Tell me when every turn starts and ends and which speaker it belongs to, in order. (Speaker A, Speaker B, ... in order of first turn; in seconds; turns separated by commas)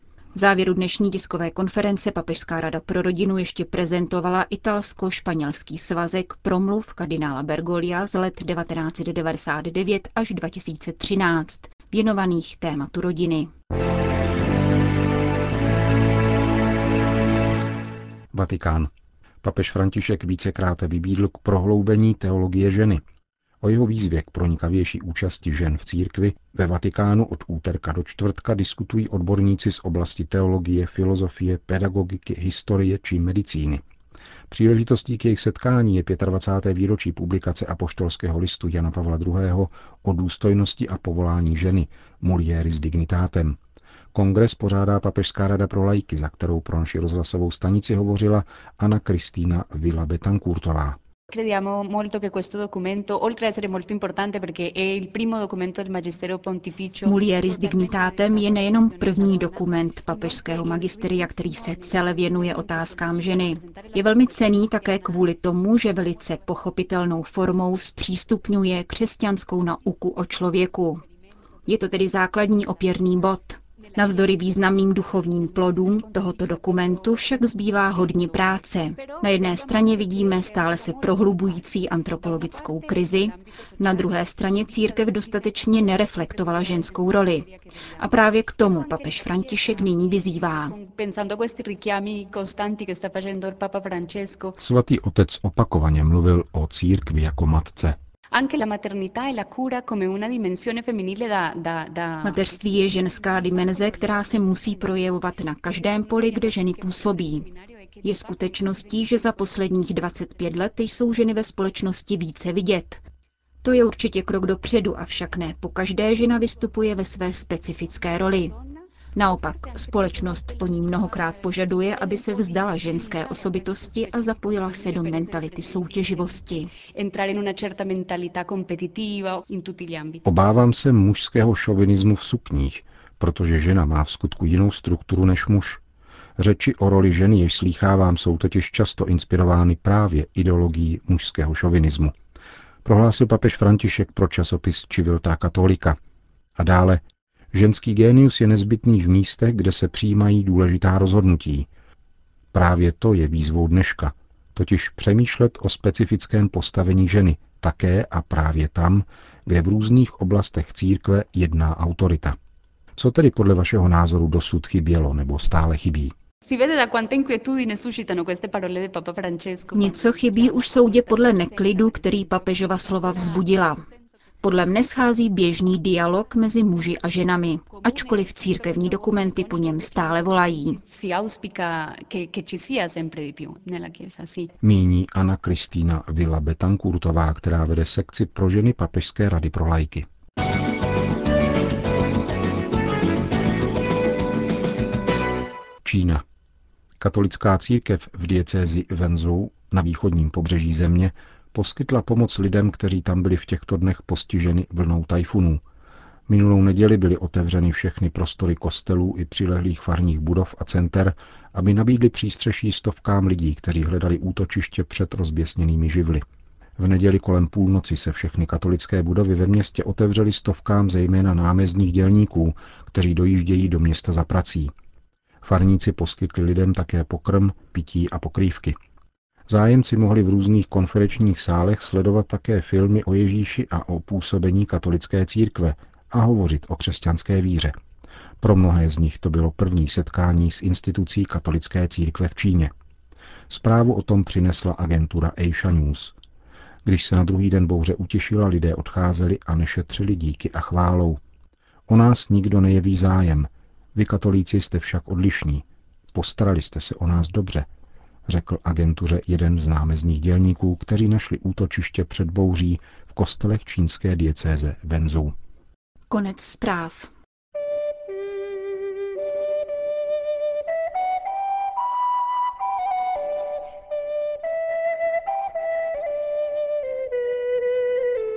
Speaker A: 0.3-13.5, Speaker B: 18.3-18.9, Speaker B: 19.4-23.0, Speaker B: 23.6-33.8, Speaker B: 34.5-43.6, Speaker B: 44.1-51.0, Speaker C: 51.3-65.3, Speaker A: 57.0-71.0, Speaker A: 71.7-87.5, Speaker C: 73.9-94.6, Speaker A: 88.0-90.8, Speaker B: 94.6-98.0, Speaker C: 98.3-105.2, Speaker A: 102.2-107.5, Speaker C: 105.7-109.7, Speaker A: 108.0-113.0, Speaker A: 113.6-118.5, Speaker A: 119.1-126.7, Speaker C: 119.9-130.2, Speaker B: 130.2-135.8, Speaker B: 136.4-142.1, Speaker B: 142.8-146.0, Speaker B: 146.6-151.7, Speaker B: 152.5-162.4, Speaker B: 163.0-166.1, Speaker C: 166.4-173.7, Speaker A: 169.7-173.8, Speaker A: 174.4-180.8, Speaker C: 177.8-184.5, Speaker B: 184.6-190.1, Speaker B: 195.8-196.2, Speaker B: 197.0-205.6, Speaker B: 206.3-216.2, Speaker B: 216.8-224.7, Speaker B: 225.4-228.8, Speaker B: 229.5-237.8, Speaker B: 238.4-242.7, Speaker B: 243.5-246.1, Speaker B: 246.8-251.2, Speaker B: 251.9-257.7, Speaker B: 258.3-265.4, Speaker A: 266.1-267.1